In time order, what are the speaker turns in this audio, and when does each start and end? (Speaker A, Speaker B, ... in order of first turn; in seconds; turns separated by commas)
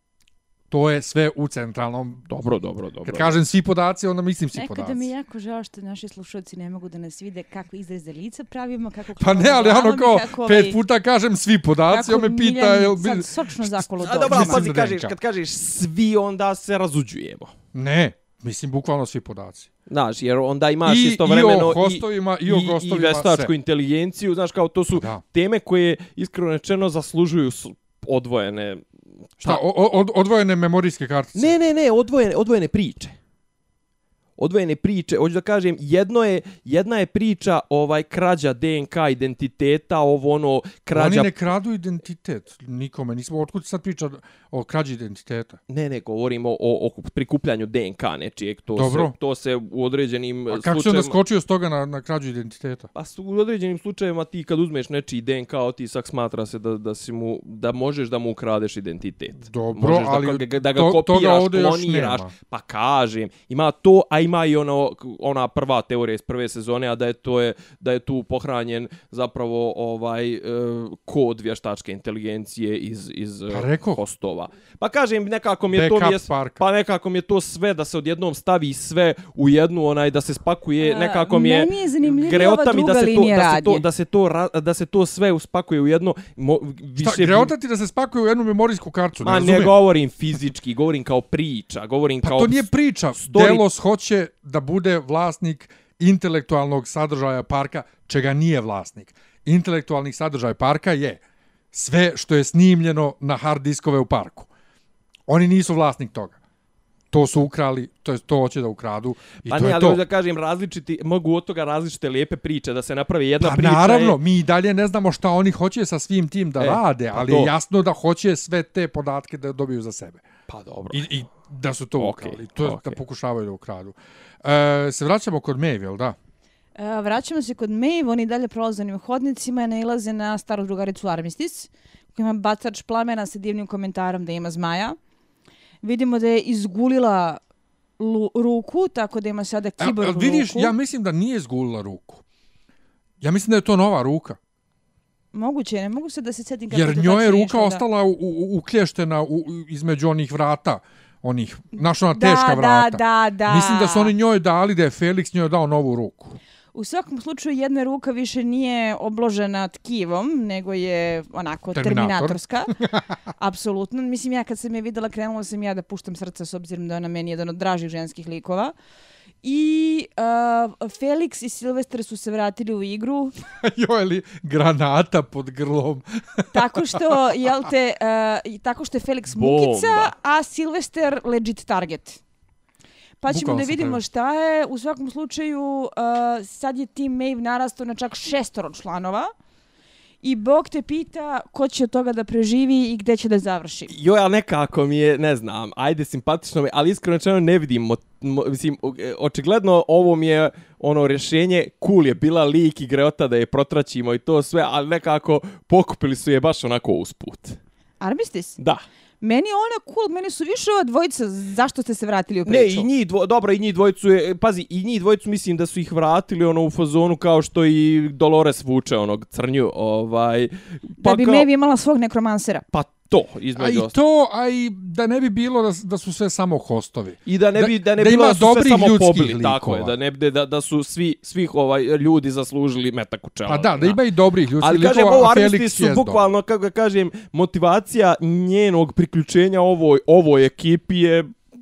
Speaker A: 0.7-2.2, Speaker B: 2.3-3.4, Speaker A: 3.0-5.1, Speaker C: 4.5-10.8, Speaker A: 9.2-15.1, Speaker C: 11.9-14.6, Speaker B: 14.0-17.5, Speaker A: 17.7-19.7, Speaker B: 19.9-28.8, Speaker A: 20.9-23.5, Speaker A: 24.9-25.2, Speaker A: 29.4-31.6, Speaker B: 31.4-33.1, Speaker B: 34.4-41.3, Speaker A: 40.9-45.6, Speaker B: 45.7-51.1, Speaker A: 48.8-49.1, Speaker A: 50.5-52.9, Speaker B: 52.9-87.5, Speaker A: 59.4-62.3, Speaker A: 73.5-74.0, Speaker A: 75.7-76.6, Speaker C: 80.8-83.8, Speaker A: 87.0-89.8, Speaker B: 89.2-93.6, Speaker A: 92.2-101.2, Speaker A: 101.7-104.5, Speaker A: 105.3-106.4, Speaker A: 107.1-110.0, Speaker B: 109.5-114.2, Speaker A: 113.4-120.2, Speaker B: 116.6-117.5, Speaker B: 120.5-121.1, Speaker A: 120.9-126.2, Speaker B: 122.0-123.0, Speaker C: 126.8-134.9, Speaker C: 135.8-137.4, Speaker C: 138.0-140.7, Speaker A: 139.8-142.2, Speaker A: 143.2-144.4, Speaker C: 145.3-147.8, Speaker A: 146.7-156.4, Speaker C: 152.1-154.1, Speaker C: 156.7-162.7, Speaker A: 161.7-163.1, Speaker C: 163.4-168.7, Speaker C: 169.4-173.3, Speaker A: 173.6-176.6, Speaker C: 176.5-182.2, Speaker B: 179.3-180.1, Speaker C: 183.2-189.3, Speaker A: 183.3-184.0, Speaker C: 190.2-193.9, Speaker B: 193.9-207.6, Speaker C: 208.0-208.6, Speaker C: 209.2-212.9, Speaker B: 212.4-221.5, Speaker C: 221.0-222.6, Speaker B: 222.7-223.9, Speaker A: 223.6-229.9, Speaker B: 227.3-234.0, Speaker A: 233.5-236.2, Speaker B: 234.6-241.3